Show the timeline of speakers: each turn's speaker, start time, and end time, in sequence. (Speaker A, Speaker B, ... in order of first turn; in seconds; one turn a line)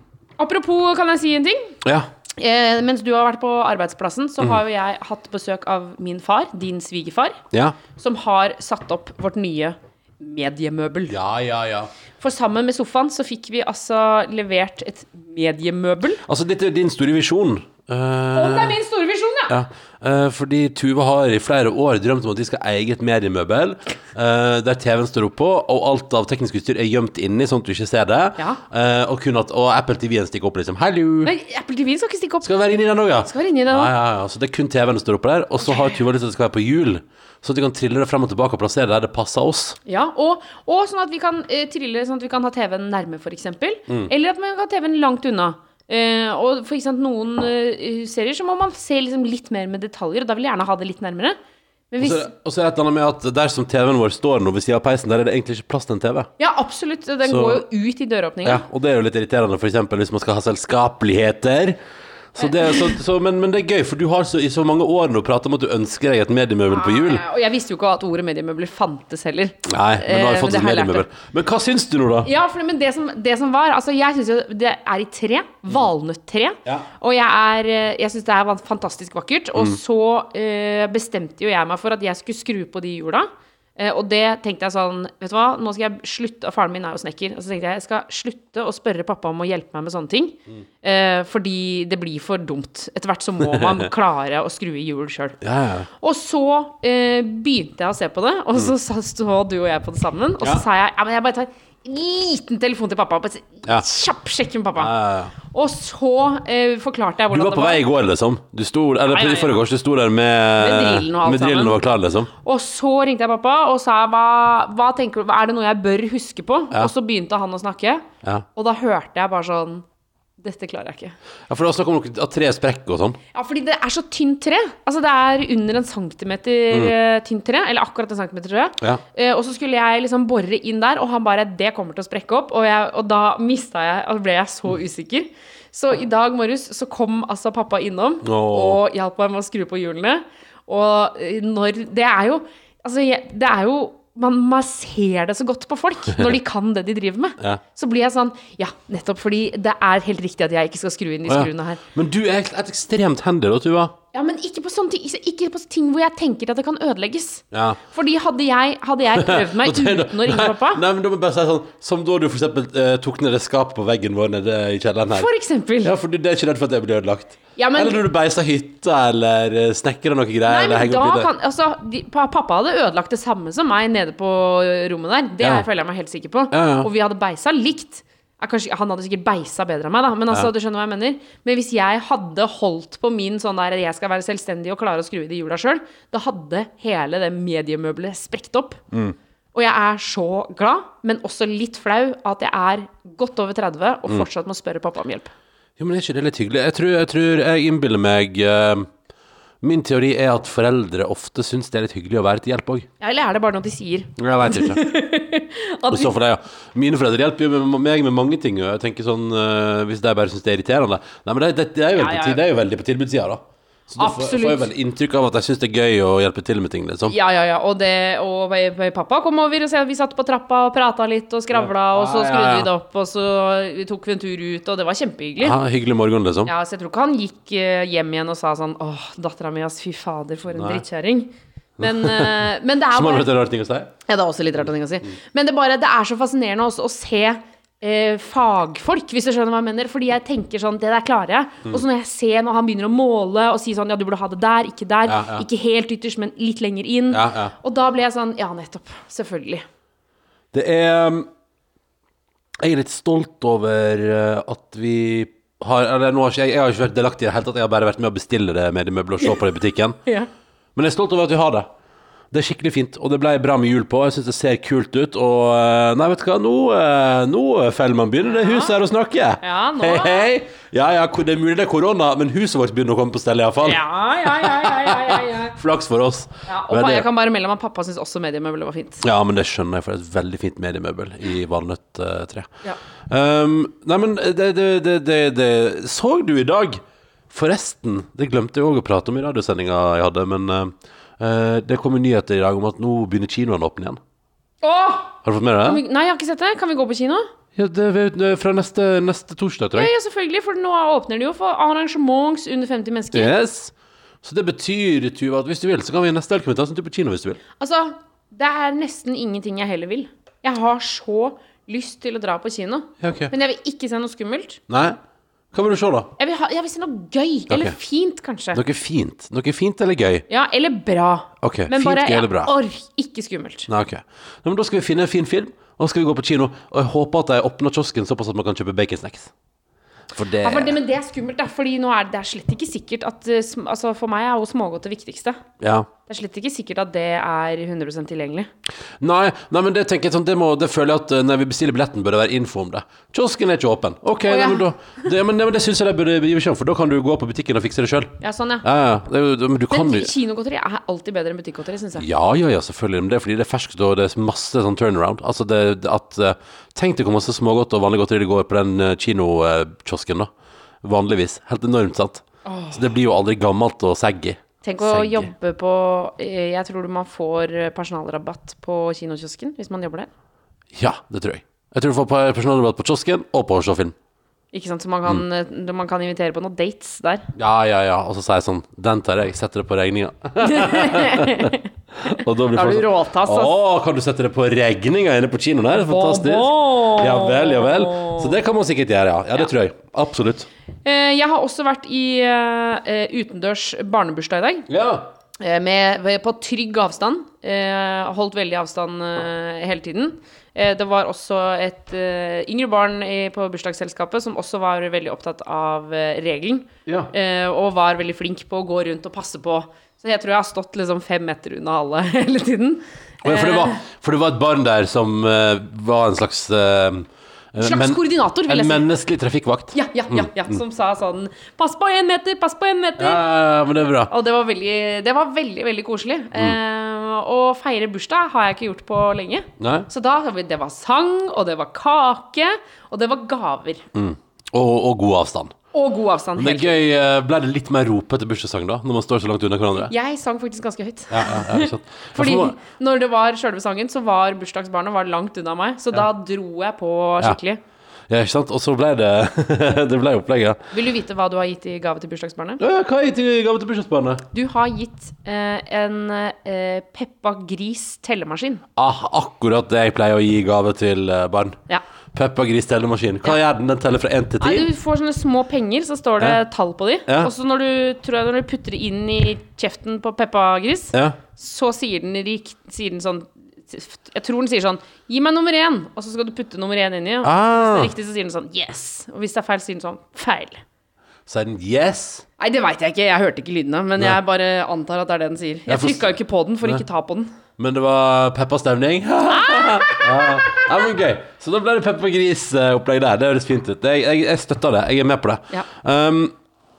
Speaker A: 0.4-1.8
Speaker A: 2.4-7.4
Speaker B: 7.5-7.8
Speaker A: 8.0-11.2
Speaker B: 11.1-11.9
Speaker A: 12.2-16.2
Speaker B: 16.3-18.8
Speaker A: 18.3-19.5
Speaker B: 19.5-31.3
Speaker A: 31.2-32.5
Speaker B: 32.4-39.8
Speaker A: 33.3-33.9
Speaker A: 35.7-36.0
Speaker A: 39.9-51.4
Speaker A: 51.9-52.3
Speaker B: 52.0-56.3
Speaker A: 56.4-58.6
Speaker B: 57.2-57.6
Speaker B: 58.4-61.8
Speaker B: 62.3-67.2
Speaker A: 66.7-71.1
Speaker B: 69.7-72.3
Speaker A: 72.2-95.4
Speaker B: 93.4-93.9
Speaker B: 95.4-95.9
Speaker A: 96.0-104.9
Speaker B: 104.8-105.3
Speaker A: 105.4-107.8
Speaker B: 107.3-112.3
Speaker A: 109.1-109.6
Speaker A: 110.6-111.8
Speaker A: 112.4-119.8
Speaker A: 120.4-121.2
Speaker B: 121.5-123.2
Speaker A: 123.3-151.8
Speaker B: 138.2-138.8
Speaker B: 151.3-153.9
Speaker A: 154.1-160.8
Speaker B: 157.5-157.8
Speaker B: 159.1-165.3
Speaker A: 165.1-165.9
Speaker B: 165.8-171.3
Speaker A: 167.6-168.0
Speaker A: 170.5-188.8
Speaker B: 175.4-175.7
Speaker B: 176.5-176.9
Speaker B: 188.9-189.2
Speaker A: 189.5-195.3
Speaker B: 195.8-198.9
Speaker B: 199.6-202.9
Speaker A: 203.0-206.1
Speaker B: 204.2-204.8
Speaker B: 205.9-217.2
Speaker A: 211.9-212.4
Speaker A: 214.0-214.7
Speaker A: 217.1-225.6
Speaker B: 221.5-222.7
Speaker B: 225.4-226.5
Speaker A: 226.4-233.3
Speaker B: 230.5-230.8
Speaker B: 231.8-233.9
Speaker A: 234.1-249.6
Speaker B: 245.1-245.5
Speaker B: 247.1-247.5
Speaker B: 250.5-251.3
Speaker B: 252.6-260.0
Speaker B: 260.8-261.7
Speaker B: 262.3-277.1
Speaker A: 268.3-268.7
Speaker A: 269.4-270.3
Speaker A: 273.6-275.6
Speaker A: 276.5-279.1
Speaker B: 279.0-282.5
Speaker B: 283.1-294.0
Speaker A: 294.6-297.3
Speaker B: 295.2-295.8
Speaker B: 297.6-299.9
Speaker A: 299.8-303.3
Speaker B: 303.1-307.4
Speaker A: 307.6-314.6
Speaker B: 313.0-313.3
Speaker B: 314.7-315.0
Speaker B: 315.5-316.1
Speaker A: 316.2-318.6
Speaker B: 317.5-317.8
Speaker B: 318.5-320.3
Speaker A: 320.3-323.7
Speaker B: 321.4-322.5
Speaker B: 323.7-329.3
Speaker B: 330.1-330.8
Speaker A: 330.4-335.4
Speaker B: 335.6-335.9
Speaker A: 336.1-338.5
Speaker B: 339.0-350.1
Speaker A: 344.3-345.1
Speaker A: 348.2-348.6
Speaker A: 349.7-352.1
Speaker B: 352.0-360.3
Speaker B: 360.8-365.3
Speaker A: 362.4-362.8
Speaker A: 364.6-370.1
Speaker B: 370.7-374.0
Speaker A: 374.5-377.3
Speaker B: 377.4-390.5
Speaker A: 380.4-381.7
Speaker A: 382.5-383.6
Speaker A: 385.7-388.3
Speaker A: 390.8-394.7
Speaker B: 394.7-395.1
Speaker A: 395.4-413.8
Speaker B: 406.9-407.1
Speaker B: 413.2-420.6
Speaker A: 417.6-418.9
Speaker A: 419.7-423.2
Speaker B: 423.0-424.1
Speaker A: 424.1-433.8
Speaker B: 429.6-429.9
Speaker B: 433.9-435.5
Speaker A: 435.7-436.8
Speaker B: 436.4-439.9
Speaker A: 439.9-447.6
Speaker B: 441.1-442.6
Speaker B: 448.1-450.6
Speaker A: 450.7-452.6
Speaker B: 452.6-454.3
Speaker A: 454.3-458.6
Speaker B: 458.8-461.6
Speaker B: 462.1-464.7
Speaker A: 464.4-480.6
Speaker B: 467.1-467.3
Speaker B: 477.2-477.9
Speaker B: 481.3-482.2
Speaker A: 482.4-487.3
Speaker B: 485.7-486.1
Speaker B: 487.6-496.3
Speaker A: 489.3-490.7